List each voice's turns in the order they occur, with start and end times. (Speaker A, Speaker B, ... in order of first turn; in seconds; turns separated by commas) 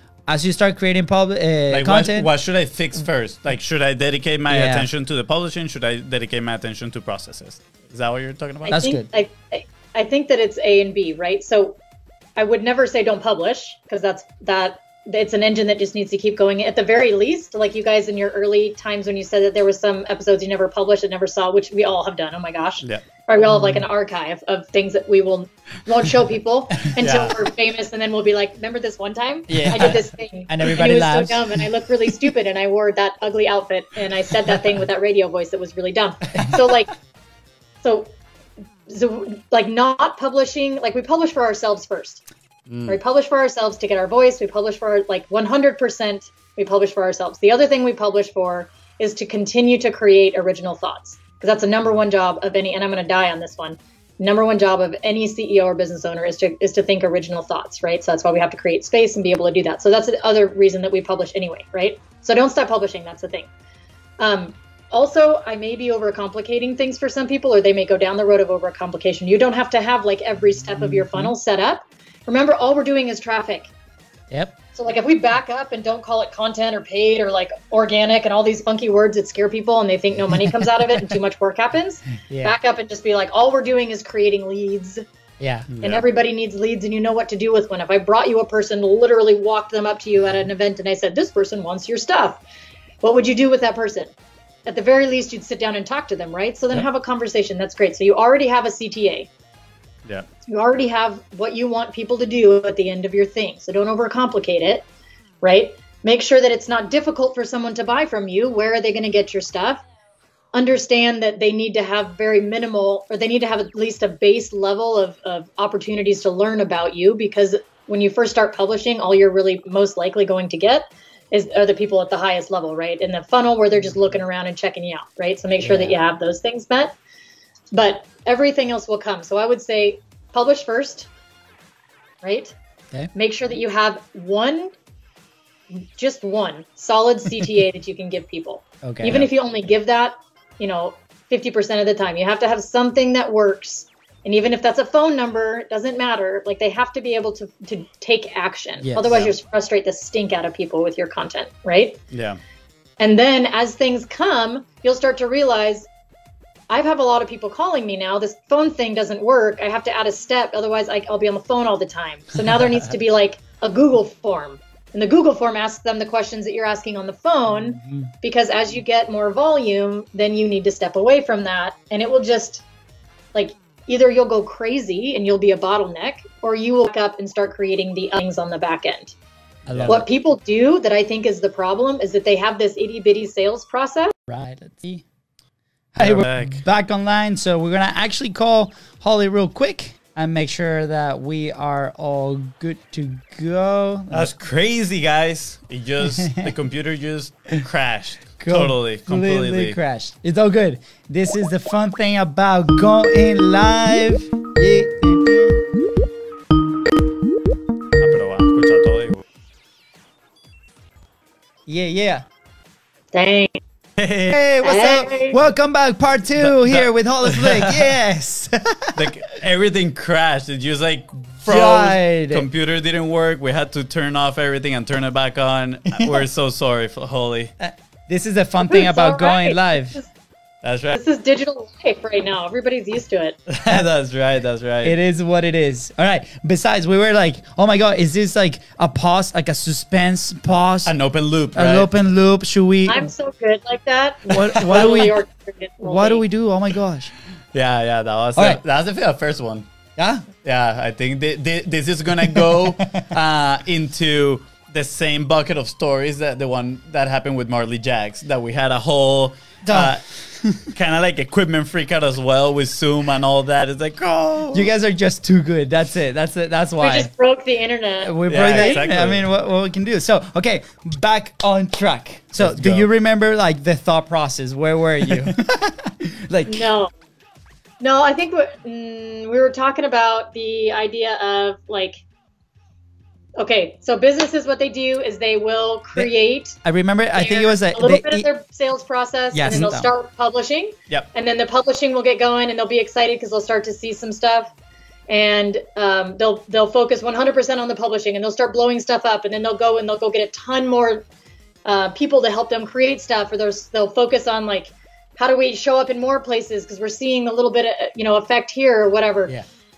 Speaker A: 0.3-2.3, Speaker B: 1.7-8.7, Speaker A: 4.5-4.9, Speaker A: 8.7-9.1, Speaker C: 8.7-11.8, Speaker C: 12.4-36.9, Speaker A: 23.5-23.8, Speaker B: 27.0-27.4, Speaker A: 29.5-31.6, Speaker C: 37.8-38.1, Speaker C: 38.9-42.2, Speaker B: 42.7-43.0, Speaker C: 42.9-63.5, Speaker C: 64.2-73.7, Speaker A: 70.8-71.3, Speaker A: 74.3-74.5, Speaker C: 74.7-85.0, Speaker A: 82.3-82.5, Speaker A: 85.4-85.7, Speaker B: 85.7-86.0, Speaker C: 85.8-92.4, Speaker C: 93.0-94.1, Speaker C: 94.7-99.3, Speaker C: 100.5-104.8, Speaker C: 105.4-109.8, Speaker C: 110.5-127.0, Speaker A: 125.6-126.0, Speaker C: 127.7-131.1, Speaker C: 132.2-132.5, Speaker C: 133.1-134.7, Speaker C: 135.7-152.0, Speaker A: 138.8-139.2, Speaker A: 148.8-149.2, Speaker B: 152.1-152.4, Speaker C: 153.0-155.9, Speaker C: 156.7-172.6, Speaker A: 167.8-168.1, Speaker C: 173.3-179.1, Speaker A: 179.7-180.0, Speaker B: 179.7-180.0, Speaker C: 179.9-184.1, Speaker A: 184.3-185.0, Speaker A: 185.9-194.3, Speaker B: 186.0-186.6, Speaker B: 194.1-199.8, Speaker A: 196.0-196.5, Speaker A: 198.4-205.6, Speaker B: 208.0-209.2, Speaker A: 211.7-212.2, Speaker C: 213.1-213.6, Speaker B: 214.0-214.4, Speaker A: 214.3-219.1, Speaker C: 214.6-215.4, Speaker B: 216.4-217.9, Speaker B: 218.9-227.5, Speaker A: 221.4-222.4, Speaker A: 225.9-226.2, Speaker A: 227.6-230.0, Speaker C: 228.6-230.1, Speaker B: 230.6-230.9, Speaker C: 230.9-233.4, Speaker B: 233.5-234.9, Speaker A: 234.8-240.9, Speaker B: 240.8-241.9, Speaker A: 241.5-243.1, Speaker C: 242.8-246.2, Speaker B: 244.3-245.1, Speaker A: 244.3-245.2, Speaker A: 245.8-247.1, Speaker B: 247.5-249.6, Speaker A: 248.3-248.6, Speaker A: 250.0-250.3, Speaker B: 250.4-264.7, Speaker A: 252.3-253.1, Speaker A: 259.6-260.5, Speaker A: 264.5-267.1, Speaker C: 266.8-268.8, Speaker A: 268.0-276.7, Speaker B: 268.3-269.2, Speaker B: 272.4-272.9, Speaker C: 276.4-276.9, Speaker C: 277.8-282.0, Speaker C: 283.4-286.6, Speaker A: 286.6-288.3, Speaker C: 287.1-294.5, Speaker A: 289.3-289.9, Speaker B: 289.5-289.8, Speaker C: 295.1-301.0, Speaker C: 301.6-309.3